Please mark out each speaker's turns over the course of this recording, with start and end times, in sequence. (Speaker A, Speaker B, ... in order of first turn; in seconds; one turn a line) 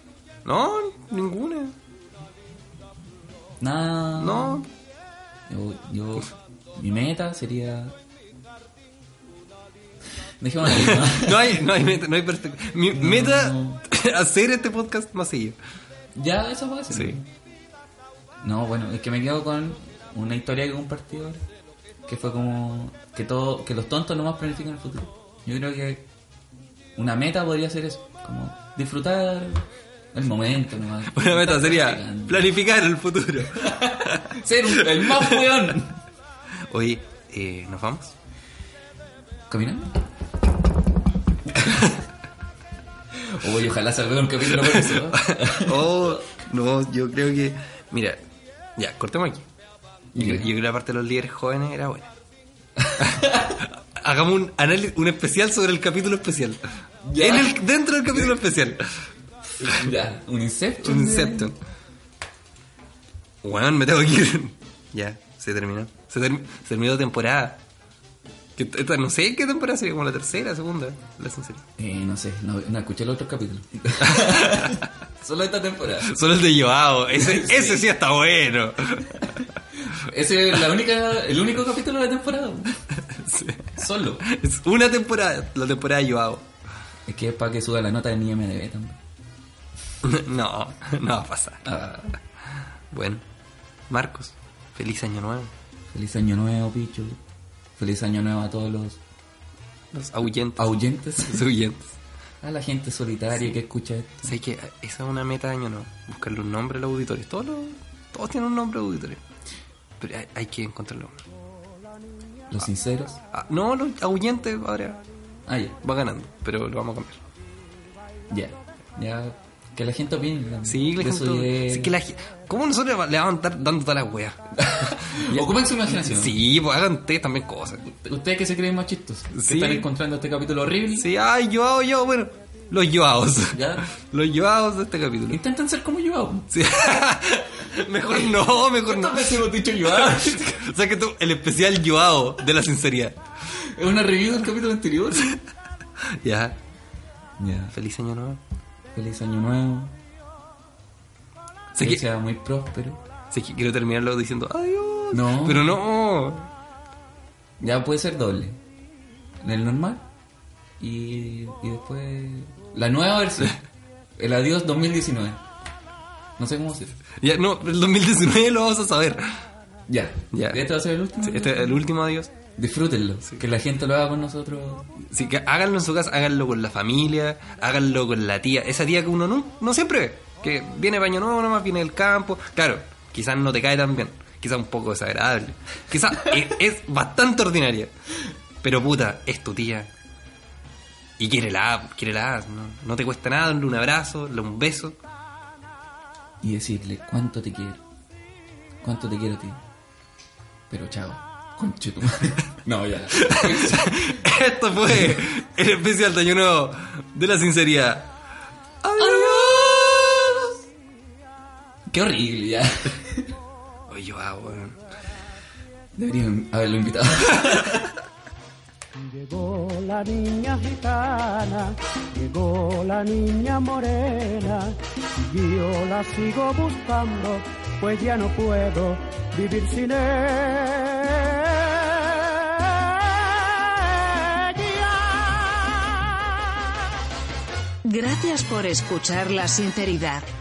Speaker A: 0.4-1.7
Speaker B: 3.6-4.6
Speaker A: 4.2-4.7
Speaker B: 5.5-7.9
Speaker B: 10.4-11.6
Speaker A: 10.6-15.6
Speaker B: 12.9-13.8
Speaker B: 16.1-17.3
Speaker A: 16.9-17.2
Speaker B: 18.4-21.4
Speaker B: 22.1-26.1
Speaker B: 26.9-32.5
Speaker A: 31.1-34.3
Speaker B: 33.6-36.0
Speaker A: 35.0-35.4
Speaker A: 36.7-38.1
Speaker B: 39.5-40.0
Speaker B: 43.3-46.2
Speaker A: 44.5-48.2
Speaker A: 48.8-49.4
Speaker A: 50.1-52.1
Speaker B: 50.1-50.5
Speaker B: 52.8-53.5
Speaker A: 53.0-56.6
Speaker B: 57.0-57.6
Speaker A: 57.2-58.8
Speaker B: 58.1-58.4
Speaker B: 59.6-61.5
Speaker A: 60.8-61.5
Speaker A: 63.4-67.6
Speaker A: 68.6-71.6
Speaker B: 71.8-76.1
Speaker A: 74.0-74.8
Speaker A: 76.1-79.4
Speaker B: 77.1-77.8
Speaker B: 80.0-82.8
Speaker A: 83.1-83.7
Speaker B: 83.7-84.2
Speaker A: 84.3-86.4
Speaker B: 87.1-89.0
Speaker A: 90.0-92.2
Speaker B: 91.6-92.0
Speaker A: 92.9-93.2
Speaker A: 93.9-95.5
Speaker B: 95.9-97.2
Speaker B: 97.8-99.0
Speaker A: 99.9-101.9
Speaker B: 100.6-101.5
Speaker B: 102.4-104.2
Speaker A: 104.2-109.2
Speaker A: 110.0-111.2
Speaker B: 112.5-113.2
Speaker A: 113.3-115.0
Speaker B: 115.5-115.8
Speaker A: 115.8-117.2
Speaker B: 118.3-121.9
Speaker A: 120.6-127.8
Speaker B: 124.6-126.4
Speaker B: 127.8-131.1
Speaker A: 129.3-129.9
Speaker A: 130.9-135.4
Speaker B: 133.4-133.8
Speaker B: 135.3-136.5
Speaker A: 136.5-143.2
Speaker B: 138.1-140.5
Speaker B: 143.8-145.3
Speaker A: 146.2-146.6
Speaker B: 147.4-147.7
Speaker A: 147.7-148.4
Speaker B: 148.9-149.9
Speaker A: 151.7-152.0
Speaker B: 151.8-153.0
Speaker A: 153.3-156.5
Speaker B: 155.1-155.8
Speaker B: 157.6-158.6
Speaker B: 159.4-160.0
Speaker B: 160.8-163.6
Speaker B: 164.2-165.4
Speaker B: 166.4-166.9
Speaker A: 167.2-169.2
Speaker B: 169.9-171.8
Speaker A: 170.3-170.6
Speaker A: 171.2-172.3
Speaker B: 172.6-174.9
Speaker A: 175.1-187.9
Speaker A: 188.6-189.9
Speaker A: 191.2-195.0
Speaker B: 196.4-197.8
Speaker B: 198.8-199.6
Speaker B: 200.7-204.2
Speaker A: 203.2-208.1
Speaker B: 204.9-205.2
Speaker A: 208.8-210.4
Speaker B: 209.0-210.1
Speaker B: 211.9-213.3
Speaker A: 213.9-214.8
Speaker B: 215.9-217.9
Speaker C: 219.2-224.8
Speaker C: 225.3-231.6
Speaker C: 234.3-236.1
Speaker D: 237.8-240.2